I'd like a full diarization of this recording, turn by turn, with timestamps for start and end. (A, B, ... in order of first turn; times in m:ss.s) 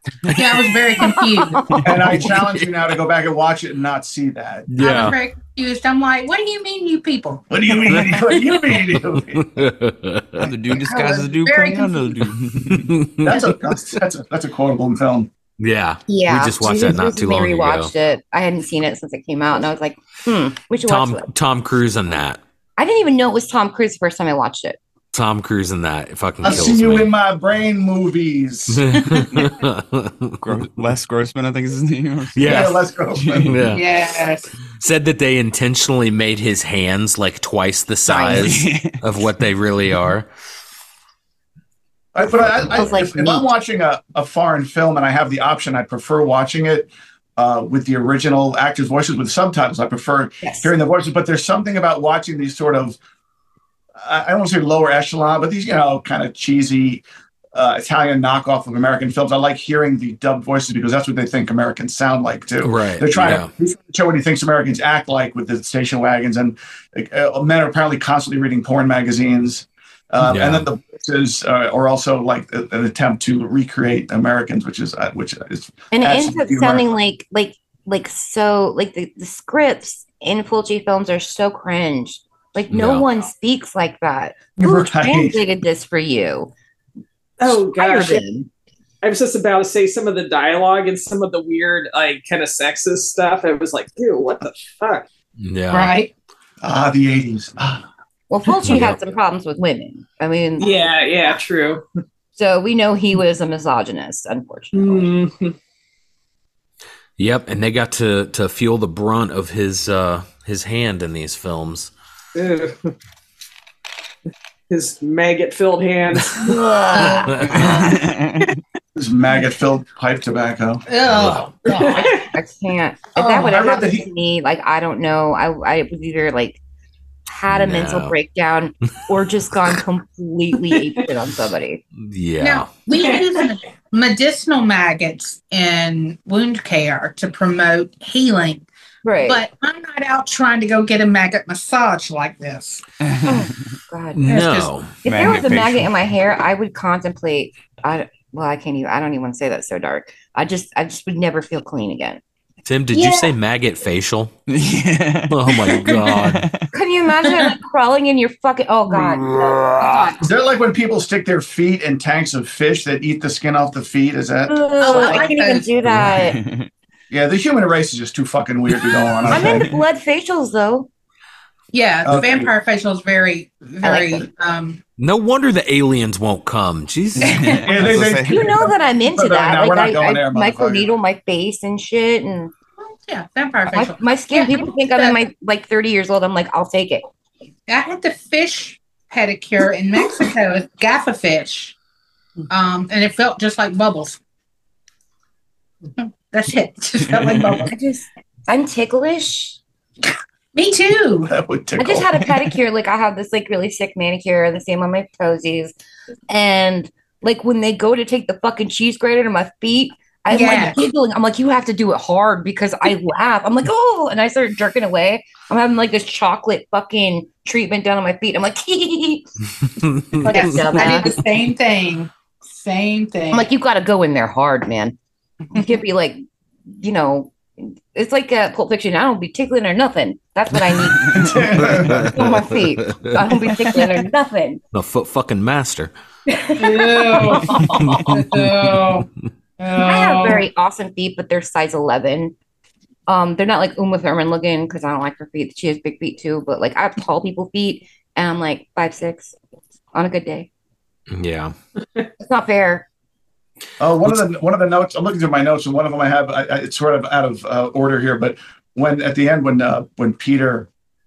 0:00.2-0:00.5 A
0:00.3-0:01.8 B
0:01.8-0:04.7 C
0:02.2-0:02.6 D
0:04.7-0:05.2 D
0:04.8-0:07.5 B
0:07.5-0:09.7 C
0:08.9-0:10.5 D
0:10.4-0:13.0 A
0:10.9-0:12.1 B
0:12.8-0:14.0 D
0:13.2-0:15.3 C
0:15.6-0:17.9 D
0:16.1-0:21.2 E
0:20.8-0:22.4 D
0:22.8-0:24.8 E
0:25.1-0:27.1 D
0:26.4-0:29.2 C
0:28.7-0:30.4 D
0:30.4-0:33.6 A
0:32.4-0:32.8 D
0:32.4-0:33.6 C
0:33.4-0:33.8 D
0:33.7-0:34.5 B
0:34.8-0:40.3 D
0:38.3-0:39.0 A
0:42.1-0:53.0 C
0:42.3-0:42.8 D
0:42.7-0:43.5 E
0:50.4-0:50.7 E
0:54.0-1:16.9 C
1:02.6-1:03.5 D
1:10.2-1:10.6 D
1:15.9-1:26.5 E
1:22.7-1:23.0 D
1:24.6-1:25.4 C
1:27.4-1:28.2 F
1:27.4-1:28.5 E
1:29.0-1:35.1 F
1:35.4-1:36.0 D
1:35.7-1:36.1 B
1:36.6-1:37.8 C
1:38.3-1:41.4 E
1:38.6-1:39.0 D
1:40.6-1:41.8 F
1:42.4-1:45.1 E
1:44.7-1:45.6 F
1:47.2-1:51.9 D
1:52.3-1:52.9 F
1:54.7-1:56.6 F
1:56.4-1:57.7 E
1:56.9-1:57.3 B
1:57.0-1:57.6 D
1:57.6-1:58.4 A
1:58.9-2:00.8 C
2:00.9-2:02.1 B
2:01.0-2:01.6 D
2:01.7-2:06.6 E
2:01.8-2:02.2 F
2:03.2-2:04.1 C
2:03.2-2:03.8 B
2:07.3-2:11.8 E
2:07.5-2:08.1 D
2:12.0-2:12.8 D
2:12.4-2:18.6 B
2:12.9-2:13.4 F
2:19.0-2:19.4 E
2:19.2-2:22.8 B
2:23.0-2:23.7 A
2:23.2-2:24.2 E
2:24.2-2:25.0 D
2:24.3-2:24.7 B
2:25.0-2:25.9 A
2:25.0-2:32.2 E
2:32.6-2:34.3 D
2:32.9-2:33.3 B
2:34.5-2:36.6 A
2:35.3-2:36.4 D
2:35.6-2:36.2 B
2:36.7-2:40.2 E
2:37.2-2:37.5 B
2:40.2-2:45.2 C
2:44.5-2:46.4 E
2:44.8-2:45.7 B
2:46.0-2:46.7 A
2:47.1-2:49.7 C
2:49.3-2:49.7 A
2:49.3-2:50.9 E
2:51.7-2:54.8 B
2:52.0-2:52.5 C
2:53.8-2:54.2 E
2:55.0-2:57.9 D
2:57.2-2:58.6 A
2:57.2-3:00.9 C
2:58.3-3:02.5 E
3:03.0-3:05.2 B
3:03.7-3:07.0 E
3:07.7-3:11.7 B
3:12.5-3:14.2 B
3:16.0-3:17.8 B
3:17.6-3:19.6 E
3:20.5-3:21.3 B
3:21.2-3:22.6 C
3:21.8-3:25.7 E
3:26.3-3:39.2 E
3:30.3-3:30.8 B
3:40.1-3:41.2 E
3:40.3-3:43.5 B
3:43.3-3:45.0 E
3:45.5-3:51.1 E
3:51.1-3:51.3 A
3:51.1-3:53.1 D
3:51.1-3:52.1 C
3:52.0-3:54.6 E
3:53.7-3:54.0 B
3:54.7-3:55.9 D
3:56.3-3:57.4 E
3:56.6-3:59.0 B
3:57.8-3:58.9 D
3:59.6-4:00.4 B
3:59.8-4:02.3 E
4:03.1-4:09.3 E
4:09.9-4:10.5 E
4:11.1-4:11.6 D
4:12.2-4:12.9 E
4:13.8-4:20.7 C